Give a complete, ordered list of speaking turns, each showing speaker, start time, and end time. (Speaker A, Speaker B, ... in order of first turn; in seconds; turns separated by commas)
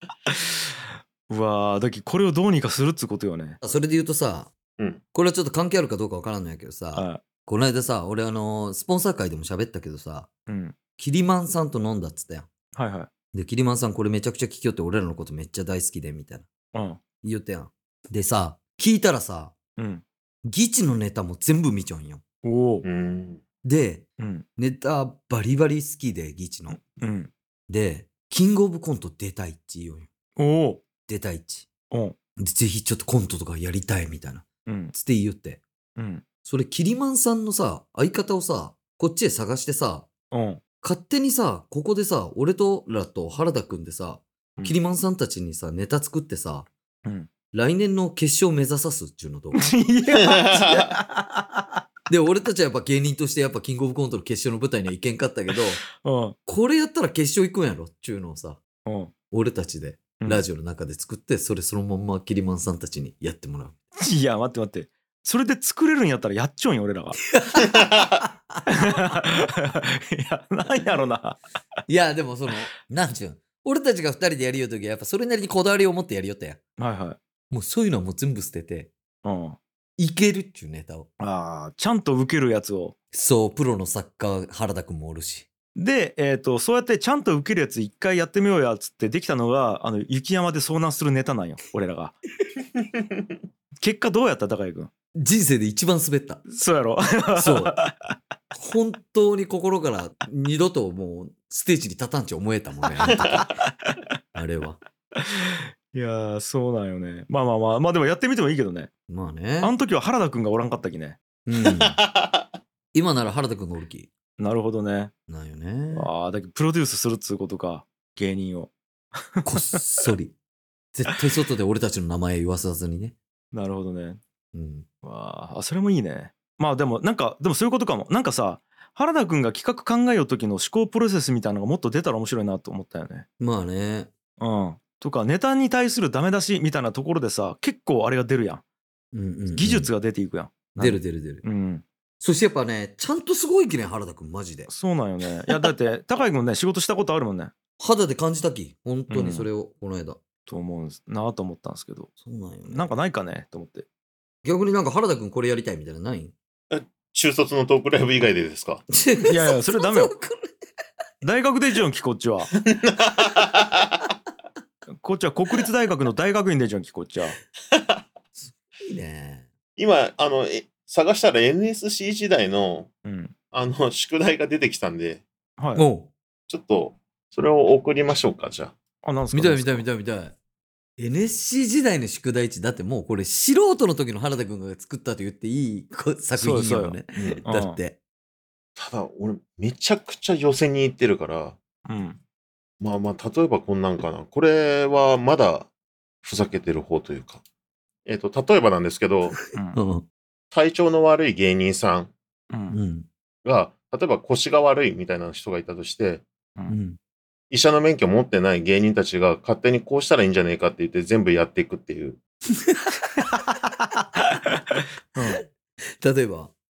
Speaker A: 0.3-3.6, Speaker B: 3.6-4.5, Speaker B: 5.1-10.3, Speaker A: 7.0-7.2, Speaker A: 10.5-10.8, Speaker B: 11.0-12.5, Speaker A: 12.8-13.1, Speaker B: 13.3-16.5, Speaker A: 16.7-17.0, Speaker B: 17.2-19.6, Speaker A: 19.8-20.0, Speaker B: 20.4-22.2, Speaker A: 22.4-22.8, Speaker C: 22.8-23.4, Speaker B: 23.6-26.8, Speaker A: 24.2-24.5, Speaker A: 26.7-27.3, Speaker B: 27.7-30.1, Speaker A: 30.4-30.8, Speaker B: 31.1-31.7, Speaker A: 31.9-32.2, Speaker B: 32.4-35.6, Speaker A: 34.7-34.9, Speaker A: 36.0-36.2, Speaker B: 36.4-40.1, Speaker A: 40.3-40.6, Speaker B: 40.8-46.7, Speaker B: 47.5-49.7, Speaker A: 49.6-51.8, Speaker C: 50.2-50.9, Speaker B: 52.1-55.8, Speaker A: 55.9-56.4, Speaker B: 56.5-58.6, Speaker A: 58.9-59.1, Speaker B: 59.3-63.8, Speaker A: 64.0-67.2, Speaker B: 67.3-68.6, Speaker A: 68.7-71.4, Speaker B: 71.9-76.6, Speaker A: 76.8-77.2, Speaker B: 77.5-78.9, Speaker A: 79.2-79.6, Speaker B: 80.0-81.1, Speaker A: 81.2-83.0, Speaker B: 83.1-85.5, Speaker A: 85.8-92.2, Speaker A: 93.8-94.9, Speaker B: 95.2-96.5, Speaker A: 96.5-98.2, Speaker B: 97.4-97.8, Speaker B: 98.5-103.5, Speaker A: 103.0-104.0, Speaker B: 104.3-104.8, Speaker A: 105.2-108.9, Speaker B: 109.1-109.7, Speaker A: 109.6-111.2, Speaker B: 111.5-112.0, Speaker C: 111.7-112.4, Speaker B: 112.9-114.1, Speaker A: 114.4-115.1, Speaker B: 115.3-116.1, Speaker A: 115.9-120.1, Speaker B: 119.5-120.4, Speaker B: 120.9-123.2, Speaker A: 123.5-124.2, Speaker B: 124.5-124.9, Speaker A: 125.0-133.3, Speaker B: 133.4-134.1, Speaker A: 134.4-138.6, Speaker B: 139.1-139.9, Speaker A: 139.5-141.8, Speaker B: 140.8-141.4, Speaker B: 142.2-144.7, Speaker A: 144.7-147.5, Speaker B: 147.8-150.2, Speaker A: 149.1-149.5, Speaker A: 150.5-152.1, Speaker B: 152.2-152.9, Speaker A: 152.7-153.9, Speaker B: 154.4-156.3, Speaker C: 156.7-158.8, Speaker B: 158.9-160.5, Speaker A: 159.2-160.2, Speaker A: 161.2-162.5, Speaker C: 162.7-164.0, Speaker A: 165.0-167.4, Speaker C: 167.7-168.0, Speaker B: 168.3-169.5, Speaker C: 169.8-172.9, Speaker A: 173.0-173.3, Speaker C: 173.5-175.2, Speaker A: 175.6-175.8, Speaker B: 175.8-176.1, Speaker C: 176.5-178.8, Speaker A: 179.0-179.9, Speaker B: 179.3-180.4, Speaker B: 181.0-188.0, Speaker A: 186.4-187.8, Speaker C: 187.2-187.4, Speaker C: 188.8-191.6, Speaker A: 191.9-192.2, Speaker C: 192.8-195.7, Speaker C: 196.2-197.4, Speaker C: 198.1-199.4, Speaker A: 199.5-199.8, Speaker B: 199.7-200.1, Speaker C: 200.5-202.1, Speaker A: 202.5-202.8, Speaker B: 202.7-203.1, Speaker C: 203.4-206.3, Speaker B: 206.7-207.0, Speaker C: 207.5-212.2, Speaker B: 212.5-213.3, Speaker A: 215.2-215.4, Speaker B: 216.0-216.5